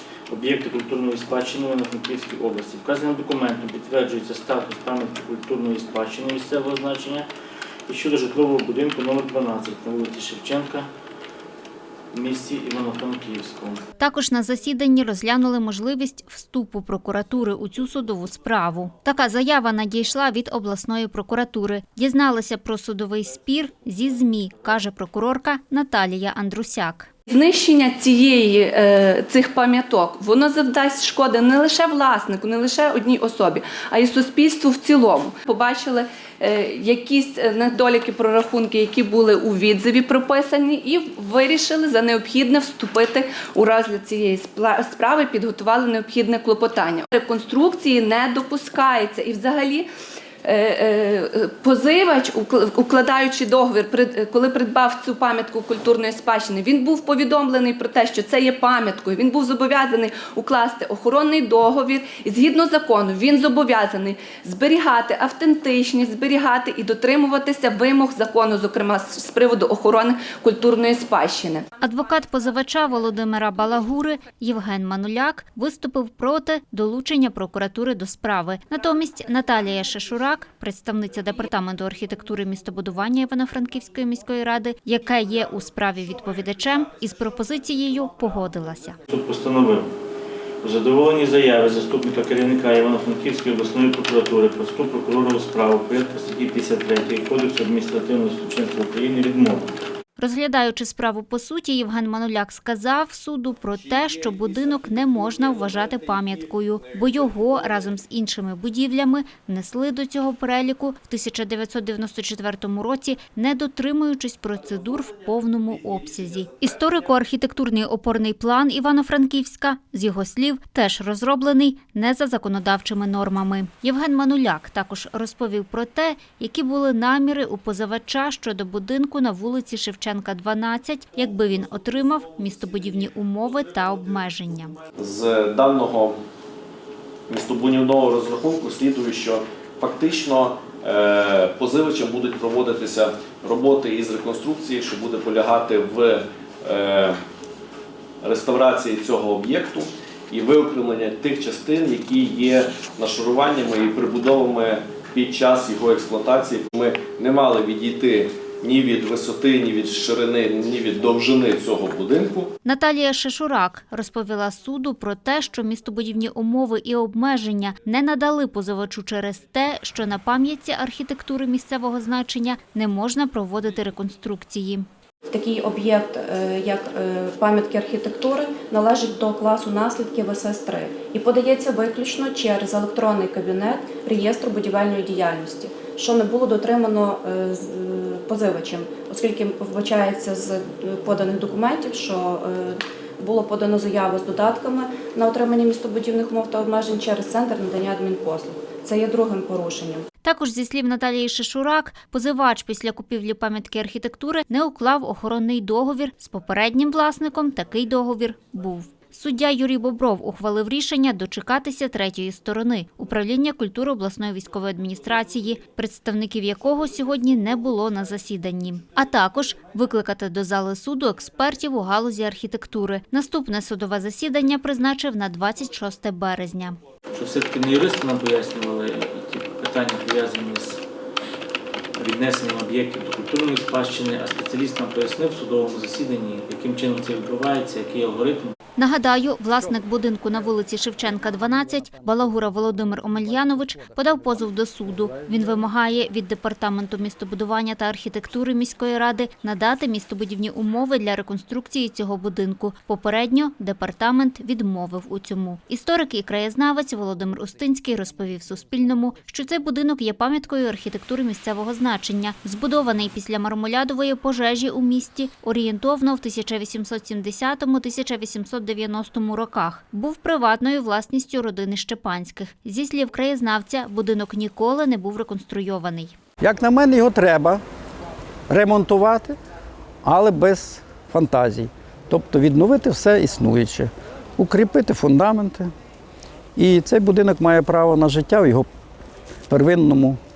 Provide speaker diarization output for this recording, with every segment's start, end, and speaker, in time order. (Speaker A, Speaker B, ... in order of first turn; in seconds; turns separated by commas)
Speaker A: 0.3-7.3, Speaker A: 7.9-10.9, Speaker A: 12.1-13.8, Speaker B: 14.0-27.1, Speaker C: 27.3-49.9, Speaker C: 50.4-71.6, Speaker B: 71.8-89.0, Speaker A: 89.1-89.9, Speaker A: 90.6-99.7, Speaker B: 100.2-134.8, Speaker D: 135.0-136.2, Speaker D: 137.3-147.2, Speaker D: 148.2-162.5, Speaker B: 162.6-174.9, Speaker E: 175.3-200.1, Speaker B: 200.2-226.8, Speaker A: 227.1-230.8, Speaker A: 232.0-238.5, Speaker B: 238.8-276.1, Speaker F: 276.4-277.6, Speaker F: 278.5-279.4, Speaker F: 280.0-285.7, Speaker F: 286.6-288.7, Speaker F: 289.5-290.2